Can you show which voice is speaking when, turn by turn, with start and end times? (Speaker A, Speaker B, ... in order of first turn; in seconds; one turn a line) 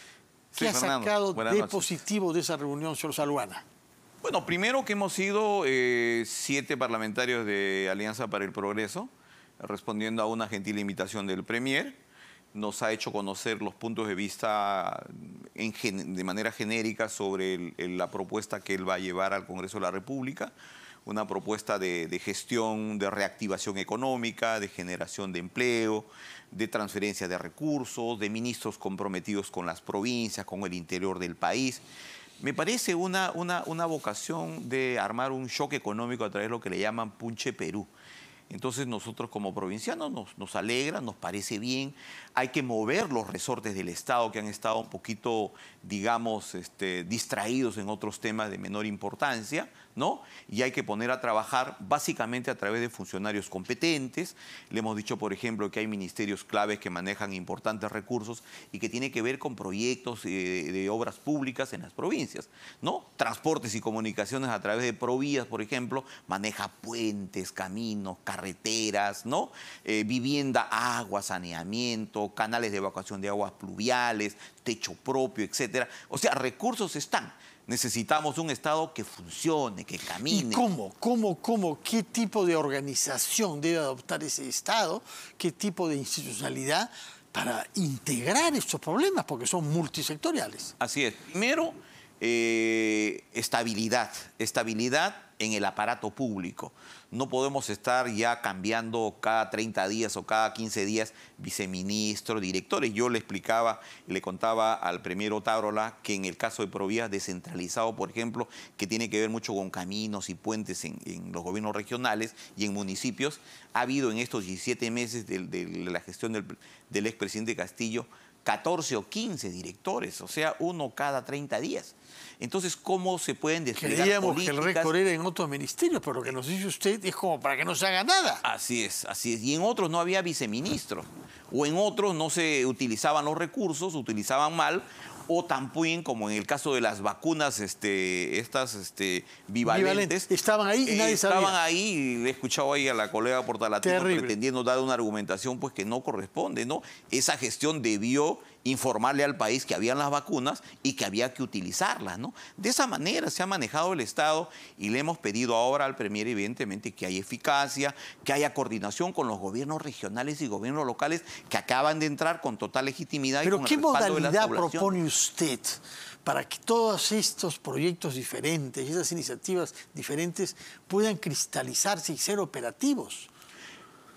Speaker A: 0.5-1.9
Speaker B: 0.6-3.6
Speaker A: 4.2-12.0
Speaker A: 12.5-20.5
Speaker A: 21.1-31.8
Speaker A: 32.4-37.9
Speaker A: 38.5-80.6
Speaker B: 80.3-90.7
Speaker A: 90.8-124.9
Speaker B: 123.8-128.4
Speaker A: 128.4-140.3
Speaker B: 139.6-141.6
Speaker A: 140.8-164.9
Speaker B: 143.8-144.3
Speaker B: 163.4-173.3